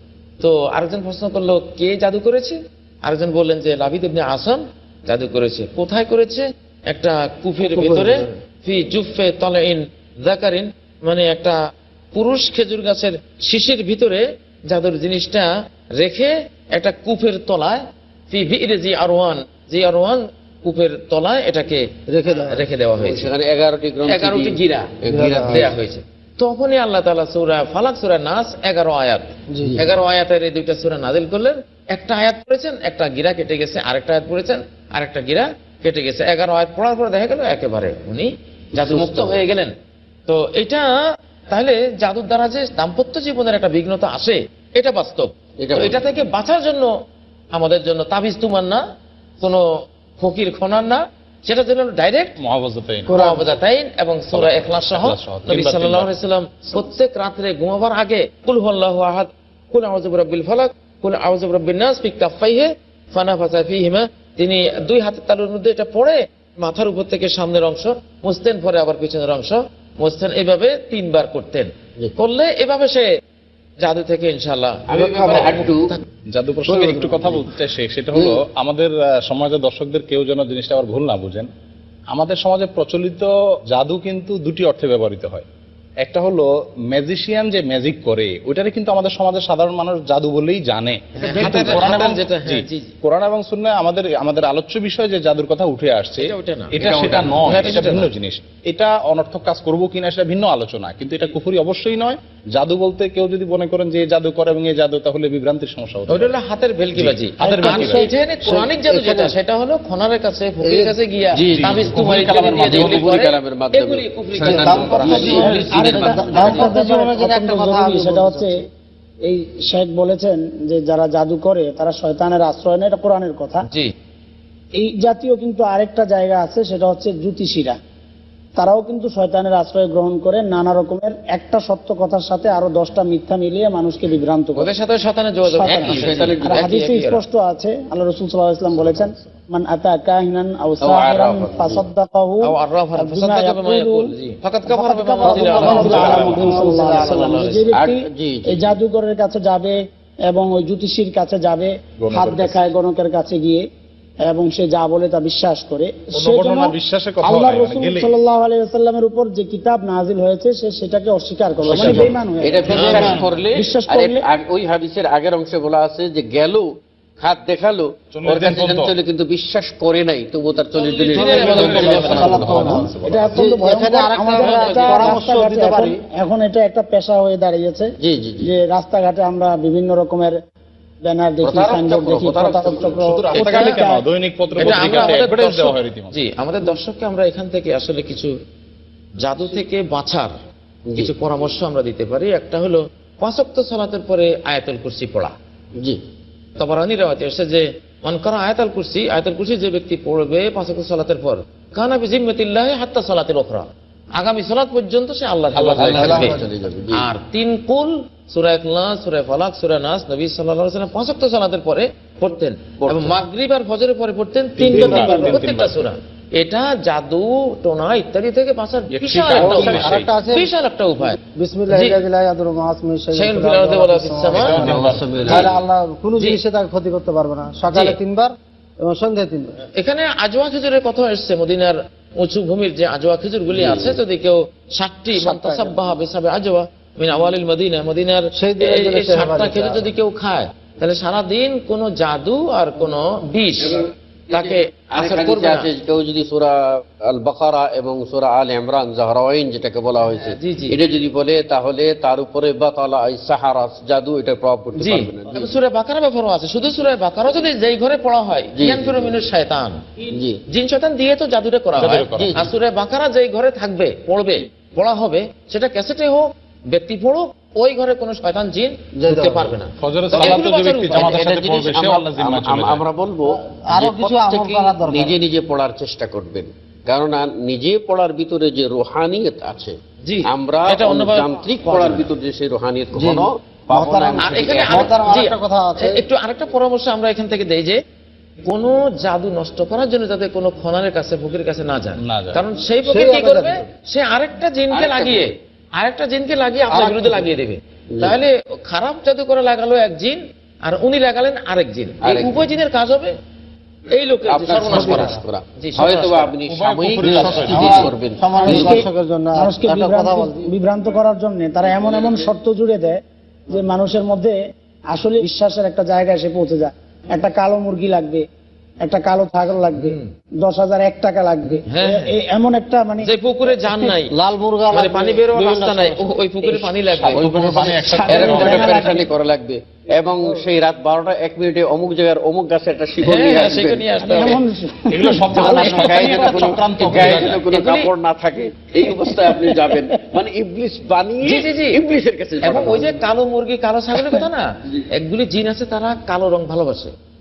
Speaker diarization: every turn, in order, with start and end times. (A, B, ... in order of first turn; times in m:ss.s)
0:00.4-0:11.6 A
0:12.1-0:23.3 A
0:22.1-0:22.6 B
0:23.0-0:25.8 C
0:24.1-0:39.7 A
0:25.1-0:25.6 B
0:29.5-0:29.8 B
0:38.7-0:39.4 C
0:40.3-0:46.9 A
0:45.6-0:46.0 C
0:47.5-0:48.8 A
0:49.4-0:52.4 A
0:52.4-0:53.4 D
0:53.1-1:13.1 A
0:53.1-0:53.5 B
0:54.3-0:56.1 D
1:13.8-1:16.0 A
1:14.9-1:15.9 C
1:16.3-1:21.5 D
1:16.7-1:17.3 B
1:22.1-1:25.5 D
1:26.0-1:46.3 D
1:31.2-1:32.9 A
1:31.5-1:31.8 C
1:36.2-1:36.8 A
1:36.8-1:37.8 C
1:37.4-1:38.1 A
1:46.1-1:56.8 A
1:47.0-1:48.1 D
1:47.4-1:48.1 E
1:48.4-1:49.4 B
1:50.6-1:51.0 B
1:51.3-1:56.7 C
1:51.5-1:53.1 D
1:54.4-1:55.6 D
1:54.4-1:58.6 B
1:55.7-1:58.6 E
1:59.2-2:03.6 E
2:04.8-2:07.8 E
2:08.6-2:14.7 E
2:14.6-2:17.2 A
2:15.4-2:24.1 E
2:15.6-2:16.7 C
2:18.8-2:19.2 D
2:20.8-2:21.8 C
2:22.4-2:27.6 A
2:24.7-2:29.8 E
2:25.2-2:27.6 B
2:25.6-2:26.7 D
2:27.7-2:28.8 C
2:30.3-2:33.6 E
2:32.0-2:32.7 D
2:34.3-2:44.2 E
2:36.2-2:38.2 D
2:41.6-2:46.7 C
2:41.7-2:42.1 D
2:41.8-2:42.0 B
2:42.7-2:43.1 A
2:42.8-2:43.2 B
2:42.9-2:43.3 D
2:47.2-2:52.8 C
2:48.1-2:48.9 D
2:50.8-2:52.7 A
2:51.1-2:53.4 D
2:51.6-2:56.0 B
2:53.0-2:57.9 E
2:54.3-2:55.2 A
2:58.0-2:58.5 C
2:58.4-3:00.4 E
3:01.0-3:04.0 E
3:01.4-3:03.1 C
3:02.9-3:06.2 D
3:03.4-3:03.8 A
3:04.6-3:08.3 A
3:09.2-3:10.3 A
3:10.9-3:11.1 C
3:11.0-3:15.3 A
3:16.6-3:26.4 A
3:25.6-3:26.4 D
3:25.8-3:27.1 C
3:26.9-3:41.2 A
3:32.8-3:33.2 C
3:34.6-3:35.8 D
3:34.8-3:35.4 B
3:38.9-3:40.1 D
3:39.3-3:40.5 B
3:41.2-3:44.6 B
3:41.7-3:42.0 A
3:43.1-3:45.0 A
3:44.3-3:45.6 D
3:44.4-3:45.6 C
3:45.2-3:49.6 B
3:47.7-3:48.0 A
3:49.8-4:05.7 A
3:53.5-3:54.0 C
3:55.2-3:55.8 B
3:58.3-3:59.8 B
4:03.6-4:15.6 C
4:10.2-4:10.8 A
4:14.8-4:31.4 A
4:18.6-4:19.2 C
4:20.1-4:20.4 C
4:21.8-4:22.5 D
4:22.1-4:22.5 C
4:29.0-4:29.6 B
4:29.8-4:32.8 D
4:30.1-4:45.0 C
4:33.5-4:35.2 B
4:40.0-4:42.1 A
4:43.0-4:46.0 B
4:44.2-4:47.8 A
4:48.5-5:03.2 A
4:52.0-4:52.4 D
4:52.9-4:53.6 B
4:54.7-4:55.3 C
4:56.7-4:57.2 B
4:57.9-4:58.2 C
5:02.0-5:02.5 C
5:03.9-5:06.4 A
5:04.3-5:08.9 C
5:04.7-5:05.2 B
5:06.5-5:07.9 D
5:07.0-5:10.5 B
5:08.4-5:14.4 E
5:14.9-5:18.2 E
5:18.8-5:23.1 E
5:19.8-5:20.1 A
5:21.7-5:22.1 A
5:23.0-5:24.1 A
5:24.0-5:26.8 B
5:24.7-5:28.7 A
5:26.9-5:29.0 D
5:27.0-5:34.0 C
5:27.7-5:29.0 E
5:33.0-5:34.4 A
5:34.0-5:36.0 E
5:34.9-5:37.4 D
5:35.3-5:43.0 C
5:35.4-5:37.9 A
5:39.0-5:39.7 E
5:41.2-5:41.8 A
5:42.4-5:46.9 A